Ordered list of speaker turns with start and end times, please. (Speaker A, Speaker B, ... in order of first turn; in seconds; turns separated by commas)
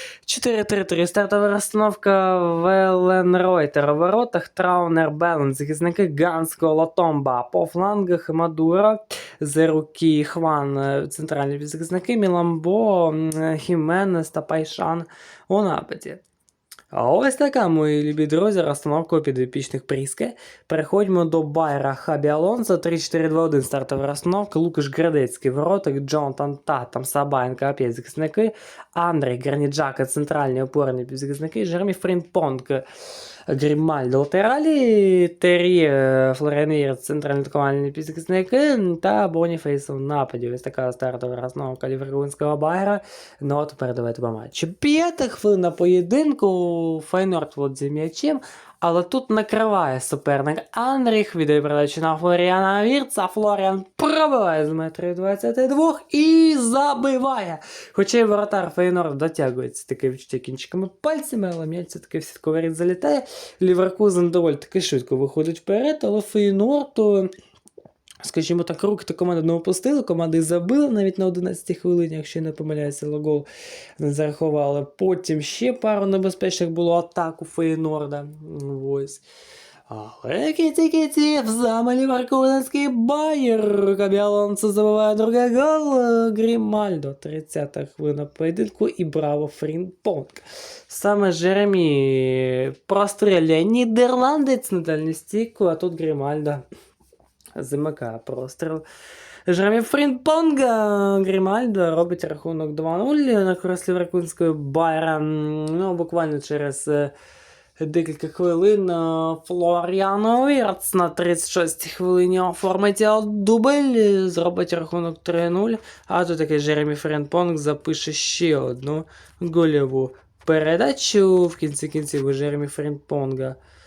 Speaker A: 0.2-16.2, Speaker A: 16.9-32.8, Speaker A: 33.5-67.3, Speaker A: 68.2-73.5, Speaker A: 74.0-79.2, Speaker A: 79.9-96.6, Speaker A: 97.5-98.8, Speaker A: 99.5-107.1, Speaker A: 107.8-123.6